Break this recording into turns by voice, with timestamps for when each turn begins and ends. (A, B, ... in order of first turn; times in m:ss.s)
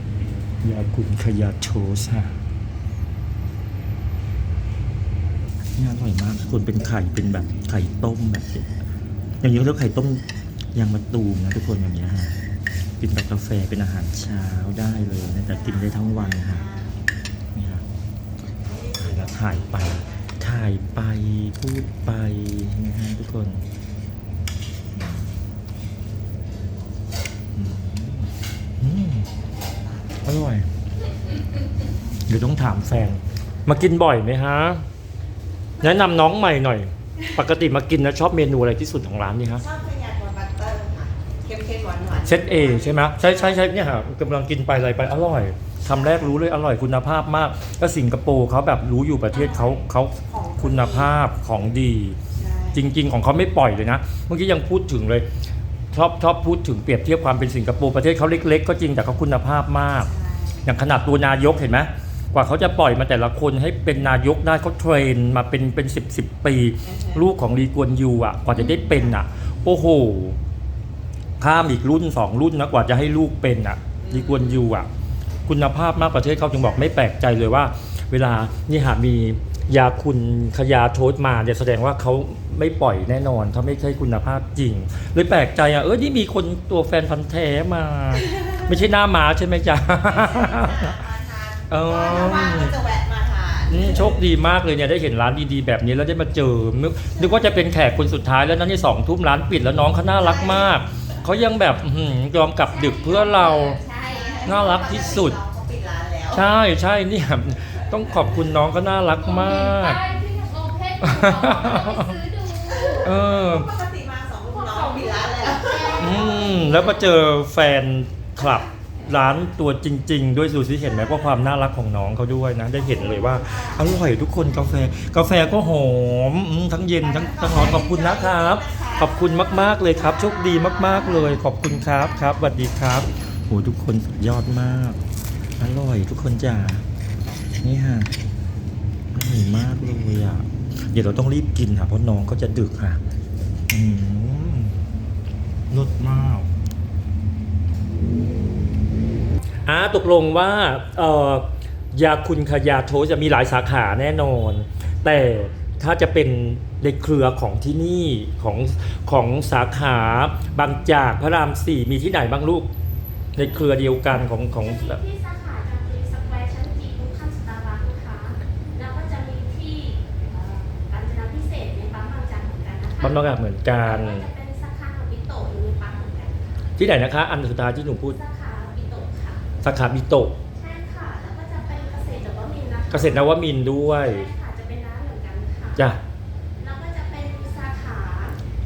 0:00.6-0:02.4 A
0:05.7-0:08.7 A
0:09.4-0:10.2 A
0:10.7-0:12.4 A
0:13.0-0:16.6 A
0:15.5-0:16.9 B
0:17.5-0:17.8 A
0:18.6-0:20.2 B
0:19.0-0:23.6 A
0:24.9-0:25.4 A
0:27.5-0:29.3 A
0:30.2-0:30.7 A
0:32.3-0:34.8 A
0:35.8-0:39.6 A
0:39.6-0:43.7 B
0:42.2-0:52.2 A
0:49.5-0:49.7 C
0:50.2-0:51.1 B
0:52.4-0:52.8 B
0:52.7-0:55.2 A
0:55.9-1:00.1 A
1:00.0-1:00.6 B
1:00.6-1:10.4 A
1:06.9-1:07.2 B
1:11.4-1:14.9 A
1:15.5-1:31.0 A
1:30.0-1:34.1 B
1:31.7-1:32.8 A
1:33.7-1:43.8 A
1:40.2-1:40.8 B
1:42.6-1:45.2 C
1:44.0-1:46.4 B
1:44.4-1:45.4 A
1:46.3-1:50.0 A
1:49.2-1:53.2 C
1:51.0-1:52.1 A
1:52.9-1:56.3 B
1:53.0-1:53.7 A
1:54.5-1:57.2 C
1:56.0-2:15.0 A
2:03.1-2:03.5 C
2:07.0-2:09.2 B
2:10.7-2:11.4 C
2:15.6-2:16.8 A
2:17.6-2:18.1 A
2:19.1-2:23.0 A
2:23.7-2:24.8 A
2:25.7-2:26.5 A
2:29.6-2:42.7 A
2:43.4-2:45.0 A
2:44.5-2:56.7 C
2:53.0-2:54.2 A
2:56.8-2:58.2 A
2:58.0-2:59.4 C
2:59.6-3:00.4 A
3:00.6-3:05.9 C
3:02.9-3:04.3 A
3:05.8-3:06.0 A
3:06.6-3:08.4 C